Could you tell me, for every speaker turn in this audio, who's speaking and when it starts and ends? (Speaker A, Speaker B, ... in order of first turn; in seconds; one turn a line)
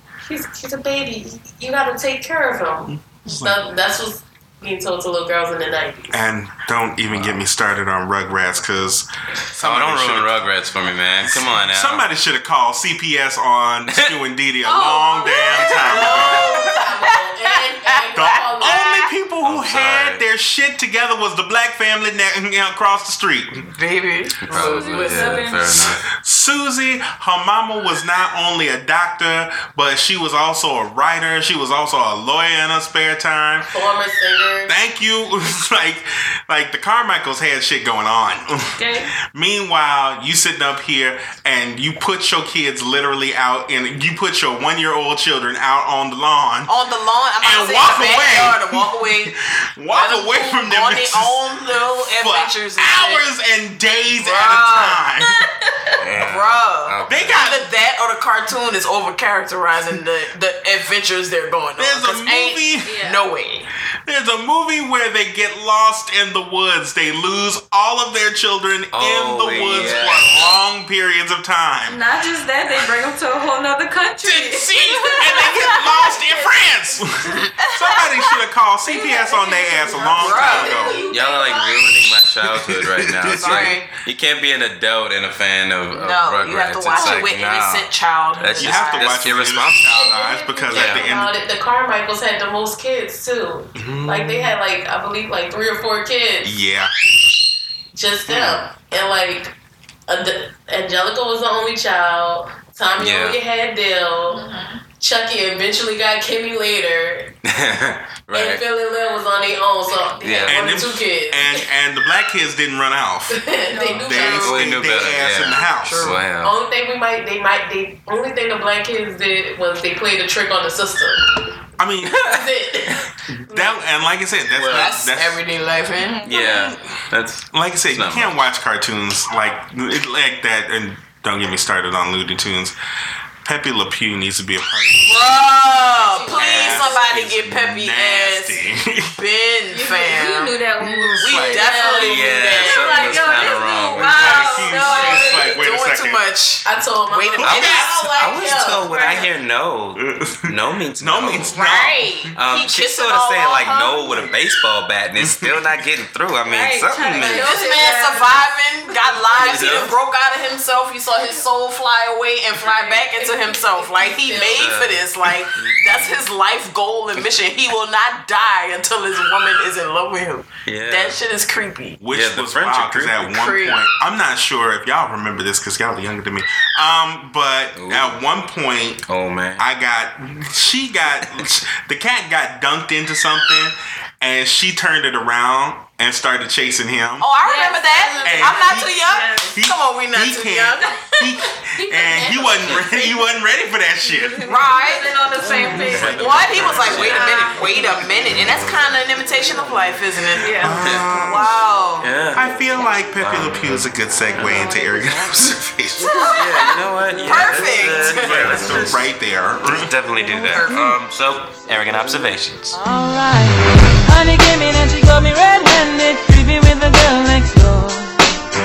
Speaker A: 0.2-6.2
Speaker B: 2.9-3.7
Speaker B: 6.1-10.3
Speaker C: 7.1-7.4
Speaker C: 9.6-12.1
Speaker B: 11.2-16.6
Speaker A: 14.6-19.1
Speaker D: 15.5-19.1
Speaker B: 18.1-23.7
Speaker C: 19.4-20.2
Speaker D: 23.6-25.4
Speaker C: 24.5-26.0
Speaker E: 24.5-25.8
Speaker B: 26.1-33.7
Speaker A: 33.7-34.7
Speaker B: 34.7-46.7
Speaker E: 38.7-39.1
Speaker D: 46.7-49.3
Speaker B: 47.4-55.5
Speaker D: 49.9-53.3
Speaker D: 54.2-55.0
Speaker C: 56.0-57.4
Speaker D: 56.1-63.7
Speaker B: 57.1-57.7
Speaker B: 61.8-63.0
Speaker E: 62.8-63.2
Speaker B: 64.0-72.0
Speaker C: 68.9-70.5
Speaker E: 71.9-76.2
Speaker D: 74.2-76.1
Speaker B: 74.9-81.0
Speaker D: 77.3-78.3
Speaker E: 78.8-81.7
Speaker A: 79.8-81.9
Speaker D: 80.2-80.8
Speaker C: 81.1-87.9
Speaker B: 82.5-83.8
Speaker D: 83.4-83.8
Speaker D: 85.9-89.2
Speaker C: 88.4-90.0
Speaker B: 88.6-91.3
Speaker A: 89.9-96.5
Speaker C: 90.7-91.0
Speaker B: 93.8-94.6
Speaker B: 96.4-96.9
Speaker A: 97.9-99.5
Speaker C: 98.3-98.6
Speaker A: 100.1-104.4
Speaker C: 103.0-103.4
Speaker E: 104.3-104.8
Speaker A: 105.0-107.3
Speaker C: 107.4-108.6
Speaker A: 108.3-111.7
Speaker C: 110.2-110.8
Speaker B: 110.5-113.4
Speaker A: 113.3-114.7
Speaker E: 113.7-114.4
Speaker B: 113.9-116.2
Speaker C: 114.3-116.5
Speaker D: 115.8-116.2
Speaker A: 116.4-121.4
Speaker B: 121.8-122.2
Speaker A: 122.2-123.8
Speaker B: 123.3-125.4
Speaker C: 124.5-124.9
Speaker D: 124.7-126.2
Speaker E: 126.0-126.7
Speaker C: 126.2-128.3
Speaker B: 126.3-127.0
Speaker B: 127.5-132.8
Speaker B: 133.4-139.2
Speaker D: 135.0-138.6
Speaker A: 136.1-137.1
Speaker C: 136.3-137.5
Speaker D: 139.2-143.3
Speaker A: 139.7-140.3
Speaker E: 140.0-141.9
Speaker B: 141.1-141.7
Speaker A: 141.3-143.6
Speaker C: 142.0-145.2
Speaker E: 142.5-145.5
Speaker B: 143.9-146.2
Speaker A: 144.6-145.6
Speaker D: 144.7-148.0
Speaker A: 146.6-149.3
Speaker B: 147.4-148.0
Speaker C: 147.4-151.5
Speaker E: 148.8-149.3
Speaker B: 150.0-152.3
Speaker D: 151.5-154.3
Speaker C: 152.3-157.6
Speaker B: 155.2-155.8
Speaker E: 156.4-159.1
Speaker D: 157.2-172.0
Speaker C: 159.4-159.9
Speaker E: 162.6-164.1
Speaker A: 162.7-164.8
Speaker C: 164.5-165.0
Speaker C: 165.5-166.2
Speaker C: 170.7-171.2
Speaker B: 172.0-179.0
Speaker C: 172.1-173.2
Speaker D: 173.2-173.8
Speaker C: 177.8-178.2
Speaker C: 179.1-179.7
Speaker B: 179.6-187.3
Speaker D: 187.2-190.9
Speaker E: 187.4-189.6
Speaker B: 188.2-194.5
Speaker E: 191.7-192.6
Speaker A: 191.8-193.2
Speaker E: 194.0-198.1
Speaker D: 194.4-202.1
Speaker B: 195.8-196.2
Speaker C: 195.9-197.4
Speaker E: 200.4-200.8
Speaker B: 200.6-201.6
Speaker C: 200.7-201.0
Speaker C: 202.0-202.5
Speaker B: 202.3-206.1
Speaker C: 203.1-204.7
Speaker D: 206.0-208.7
Speaker C: 206.2-209.1
Speaker B: 207.6-209.9
Speaker C: 209.6-212.8
Speaker D: 210.5-211.0
Speaker F: 212.7-218.2